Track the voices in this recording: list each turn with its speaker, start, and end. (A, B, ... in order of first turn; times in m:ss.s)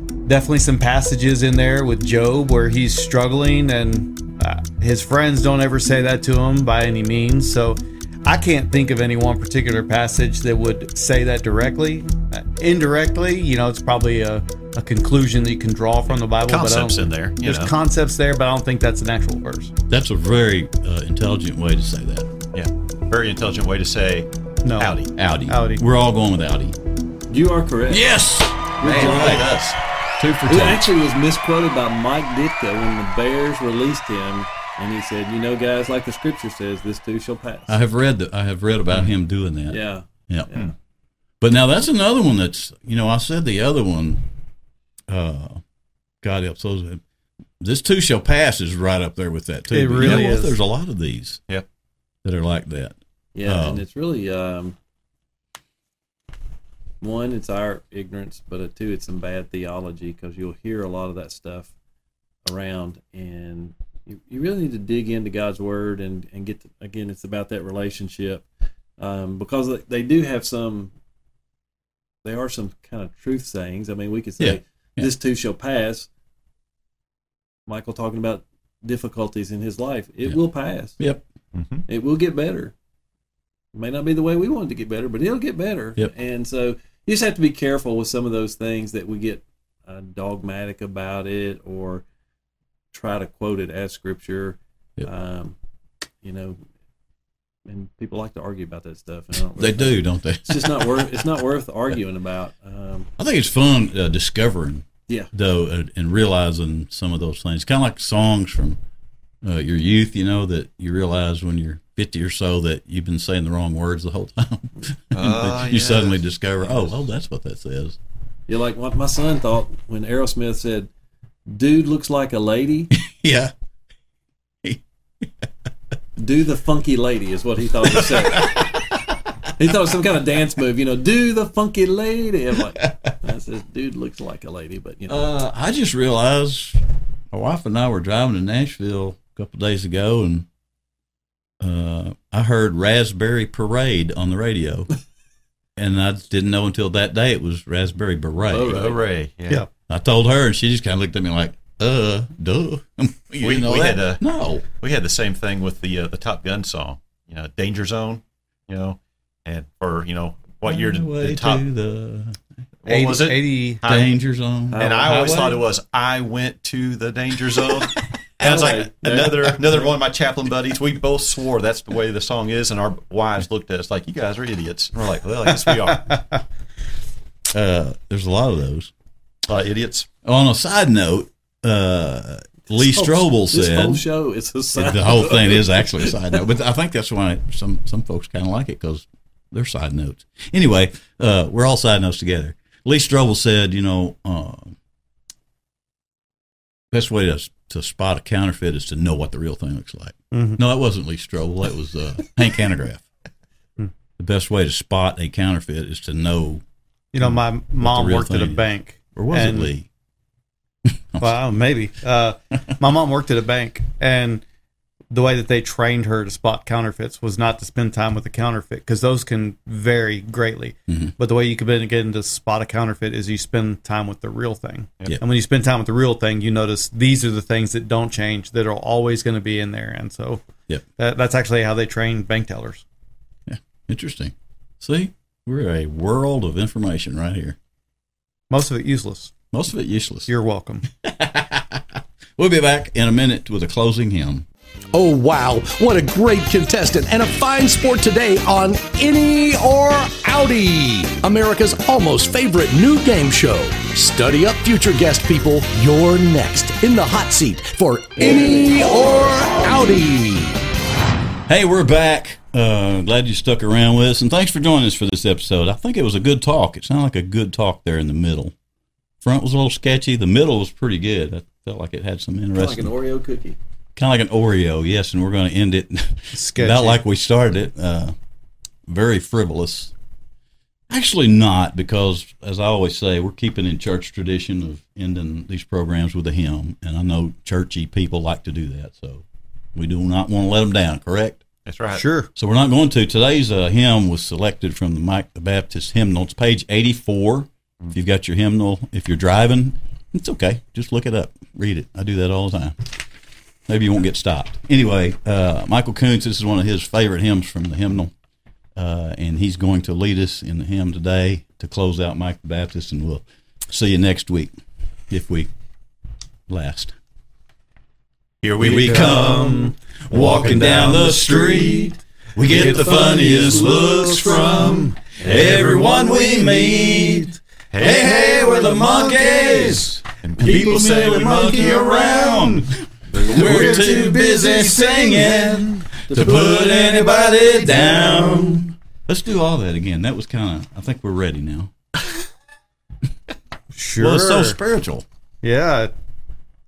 0:00.2-0:19.7 A
0:16.1-0:17.7 B
0:19.9-0:22.3 C
0:22.5-0:24.3 B
0:24.6-0:25.8 A
0:24.8-0:25.1 B
0:25.2-0:26.8 C
0:27.3-0:28.2 D
0:27.9-0:29.6 C
0:28.8-0:29.5 D
0:28.8-0:29.8 B
0:30.2-0:30.9 C
0:30.5-0:37.8 D
0:37.7-0:40.5 C
0:39.7-0:40.7 D
0:41.4-0:44.3 C
0:45.1-0:45.6 C
0:46.2-0:47.0 C
0:47.6-0:51.4 C
0:49.7-0:50.6 A
0:50.0-0:50.3 B
0:52.2-0:53.8 C
0:53.3-0:54.8 D
0:57.0-1:01.7 D
1:02.4-1:08.4 D
1:09.0-1:10.9 D
1:12.2-1:16.1 D
1:14.4-1:15.1 C
1:17.7-1:21.0 D
1:21.0-1:21.2 C
1:21.5-1:21.8 B
1:21.9-1:22.7 D
1:23.7-1:32.0 D
1:32.9-1:35.6 D
1:36.2-1:36.6 D
1:37.7-1:43.1 D
1:39.6-1:41.3 C
1:43.2-1:48.8 C
1:49.4-1:58.0 C
1:55.1-1:56.2 B
1:58.5-2:00.9 D
2:01.5-2:02.9 D
2:02.9-2:03.5 C
2:04.6-2:05.5 C
2:06.2-2:08.9 D
2:07.8-2:08.9 C
2:09.6-2:15.3 D
2:15.1-2:20.5 C
2:21.6-2:24.9 C
2:25.8-2:29.0 C
2:28.5-2:29.0 D
2:28.5-2:29.6 B
2:29.9-2:34.6 C
2:33.4-2:34.2 B
2:34.8-2:41.6 B
2:40.6-2:42.4 C
2:42.8-2:44.1 B
2:42.9-2:43.8 A
2:43.8-2:44.8 C
2:44.7-2:56.2 B
2:44.8-2:45.6 A
2:48.4-2:49.4 D
2:48.4-2:49.5 C
2:57.5-2:58.9 C
2:59.4-3:00.1 B
3:00.2-3:04.0 C
3:02.7-3:06.2 D
3:04.8-3:14.8 C
3:16.9-3:23.1 C
3:20.3-3:20.6 A
3:24.2-3:26.6 C
3:27.1-3:29.7 A
3:27.2-3:29.9 C
3:30.9-3:31.4 C
3:31.2-3:34.4 A
3:35.1-3:50.4 A
3:40.9-3:41.1 C
3:51.0-3:52.8 A
3:53.5-3:57.6 C
3:58.5-3:59.3 A
3:59.5-4:00.3 C
4:00.3-4:00.9 A
4:01.0-4:04.5 C
4:04.9-4:20.6 E
4:21.5-4:28.6 C
4:29.2-4:32.9 C
4:32.6-4:33.6 D
4:34.0-4:38.2 C
4:36.3-4:37.0 A
4:38.9-4:39.9 C
4:40.9-4:51.4 C
4:51.7-4:52.0 B
4:51.9-4:52.3 A
4:52.4-5:03.0 C
5:03.7-5:08.1 C
5:08.8-5:14.6 C
5:15.1-5:15.5 C
5:16.5-5:17.0 C
5:18.4-5:19.4 B
5:18.6-5:41.7 C
5:18.7-5:25.0 A
5:25.2-5:25.8 D
5:27.7-5:28.2 B
5:28.2-5:29.8 A
5:30.2-5:32.5 B
5:33.1-5:34.4 B
5:33.2-5:35.8 A
5:36.1-5:36.9 D
5:37.2-5:38.4 B
5:43.7-5:44.6 A
5:44.0-5:45.0 C
5:45.4-5:45.9 A